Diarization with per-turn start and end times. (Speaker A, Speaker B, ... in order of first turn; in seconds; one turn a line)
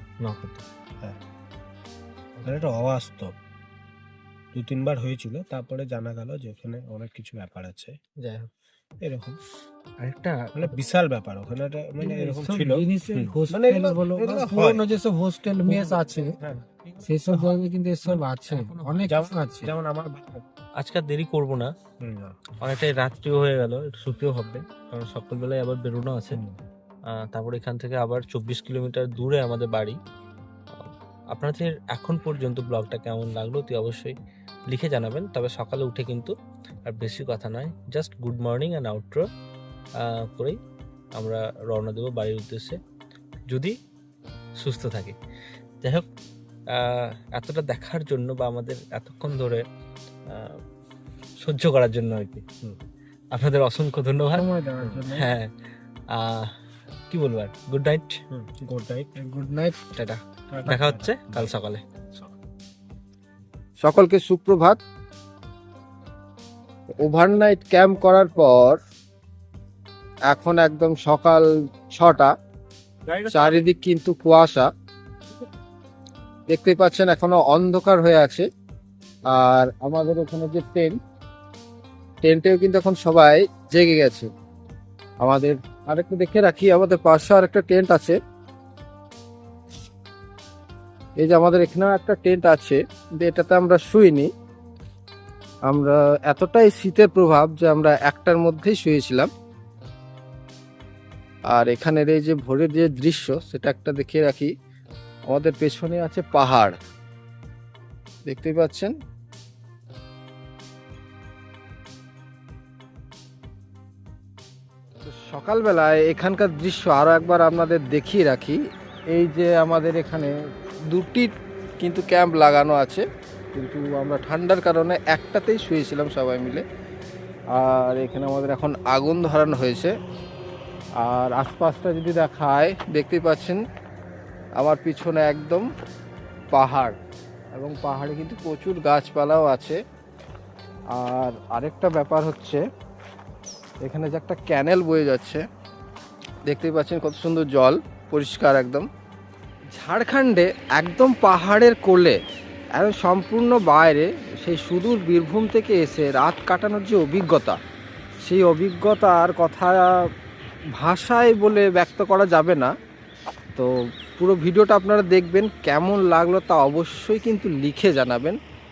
Speaker A: 0.2-0.6
Speaker B: 2.4-3.3
Speaker B: 4.5-8.0
Speaker A: 8.2-8.5
Speaker B: 9.0-9.4
Speaker A: 10.0-10.5
Speaker B: 10.5-14.8
Speaker C: 12.0-16.4
Speaker B: 15.9-16.6
Speaker C: 17.0-19.7
Speaker B: 19.1-20.4
Speaker A: 20.8-21.7
Speaker B: 22.0-22.4
Speaker A: 22.6-26.3
Speaker A: 27.2-30.0
Speaker A: 31.3-34.1
Speaker A: 34.7-36.3
Speaker A: 36.9-39.2
Speaker A: 40.0-40.6
Speaker A: 41.2-42.8
Speaker A: 43.5-43.8
Speaker A: 44.6-45.2
Speaker A: 45.8-46.1
Speaker A: 46.7-49.7
Speaker A: 50.3-50.6
Speaker A: 51.4-52.4
Speaker A: 53.3-54.4
Speaker C: 54.3-55.3
Speaker B: 54.8-55.3
Speaker A: 56.1-56.5
Speaker A: 57.1-58.2
Speaker B: 58.3-59.2
Speaker C: 59.2-59.8
Speaker B: 60.5-61.5
Speaker A: 60.9-61.8
Speaker C: 63.8-64.8
Speaker C: 67.0-68.8
Speaker C: 70.3-72.3
Speaker C: 73.3-74.7
Speaker C: 76.5-78.5
Speaker C: 79.3-81.0
Speaker C: 82.2-84.3
Speaker C: 85.2-88.2
Speaker C: 91.2-94.3
Speaker C: 95.7-99.3
Speaker C: 101.5-104.5
Speaker C: 105.3-106.8
Speaker C: 108.2-108.9
Speaker C: 115.1-118.6
Speaker C: 119.1-120.3
Speaker C: 120.9-126.6
Speaker C: 127.5-129.9
Speaker C: 131.0-133.6
Speaker C: 134.6-135.7
Speaker C: 136.5-137.0
Speaker C: 137.5-139.8
Speaker C: 140.9-142.6
Speaker C: 143.8-145.4
Speaker C: 146.5-148.9
Speaker C: 149.7-152.2
Speaker C: 152.8-157.6
Speaker C: 158.2-159.9
Speaker C: 160.8-162.7
Speaker C: 163.6-168.4